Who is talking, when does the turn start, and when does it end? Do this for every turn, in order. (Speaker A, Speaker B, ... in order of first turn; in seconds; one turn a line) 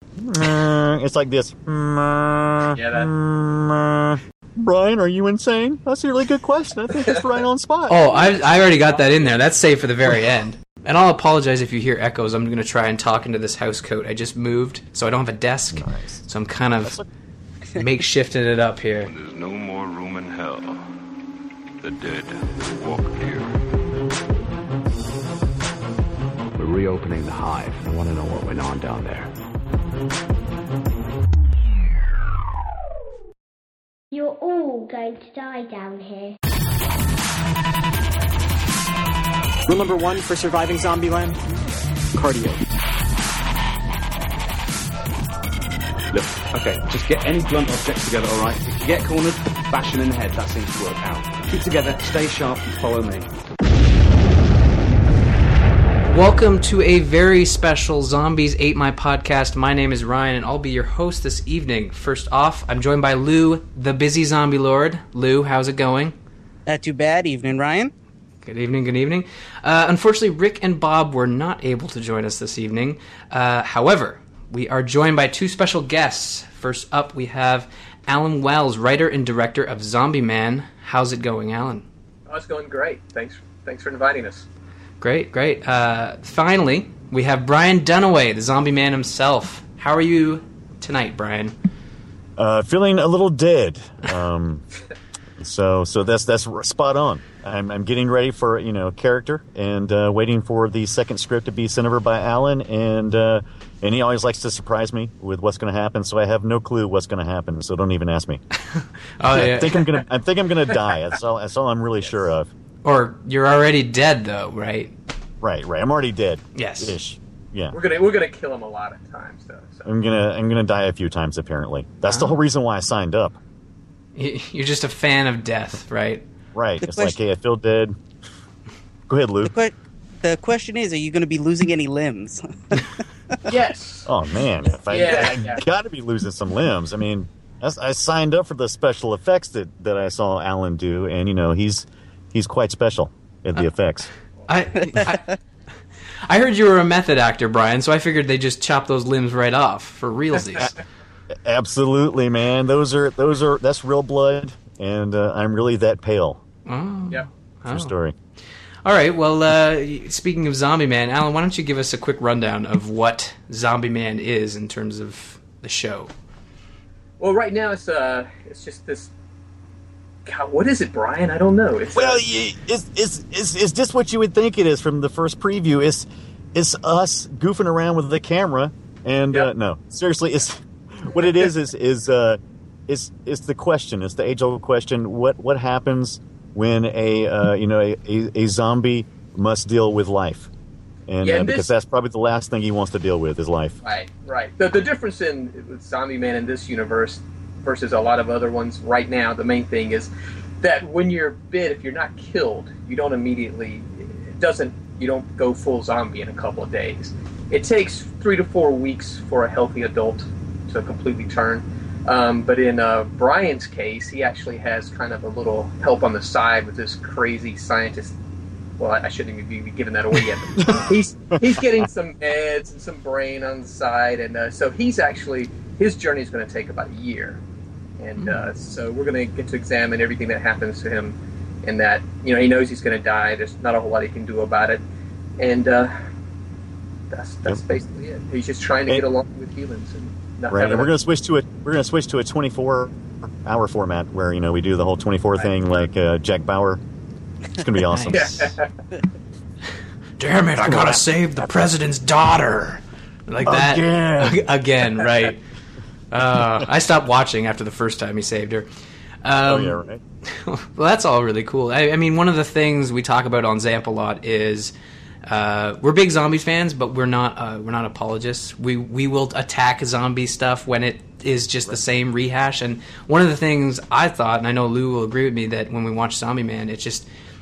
Speaker A: 0.1-8.0
Speaker B: 2.7-3.1
Speaker C: 7.9-17.0
Speaker B: 8.1-9.3
Speaker A: 15.7-16.2
Speaker C: 17.7-19.1
Speaker D: 19.0-20.8
Speaker D: 21.8-23.6
Speaker E: 26.6-29.3
Speaker F: 34.1-36.4
Speaker G: 39.7-41.4
Speaker G: 42.1-42.6
Speaker E: 46.1-53.3
Speaker C: 56.1-66.1
Speaker H: 66.7-67.9
Speaker C: 68.4-81.8
Speaker B: 82.3-84.5
Speaker C: 85.0-91.5
Speaker A: 92.4-94.6
Speaker A: 95.4-108.4
Speaker C: 108.7-109.8
Speaker A: 109.3-112.5
Speaker C: 112.8-114.9
Speaker A: 115.4-117.8
Speaker C: 116.5-116.9
Speaker B: 117.7-119.9
Speaker A: 119.8-123.4
Speaker C: 122.1-122.3
Speaker C: 124.1-126.2
Speaker A: 126.5-128.0
Speaker H: 126.8-127.2
Speaker A: 129.1-129.5
Speaker H: 129.4-133.3
Speaker B: 133.5-134.1
Speaker A: 134.1-144.1
Speaker B: 134.9-135.6
Speaker C: 144.5-145.3
Speaker C: 146.3-150.7
Speaker A: 151.4-156.4
Speaker C: 156.7-157.9
Speaker A: 157.7-158.2
Speaker C: 158.8-166.1
Speaker B: 167.2-169.1
Speaker B: 170.2-172.2
Speaker A: 171.9-190.5
Speaker A: 191.1-193.8
Speaker B: 191.2-191.7
Speaker B: 193.8-200.1
Speaker B: 200.6-218.2
Speaker B: 218.8-227.4
Speaker A: 220.6-221.8
Speaker B: 228.0-234.8
Speaker C: 228.2-228.5
Speaker B: 235.4-235.9
Speaker B: 237.1-240.9
Speaker A: 240.5-246.8
Speaker A: 247.6-248.3
Speaker C: 247.9-248.6
Speaker B: 248.1-248.7
Speaker C: 250.2-255.4
Speaker A: 250.6-251.0
Speaker A: 253.4-254.4
Speaker C: 256.1-258.7
Speaker C: 259.2-264.7
Speaker A: 259.4-260.0
Speaker C: 265.3-277.1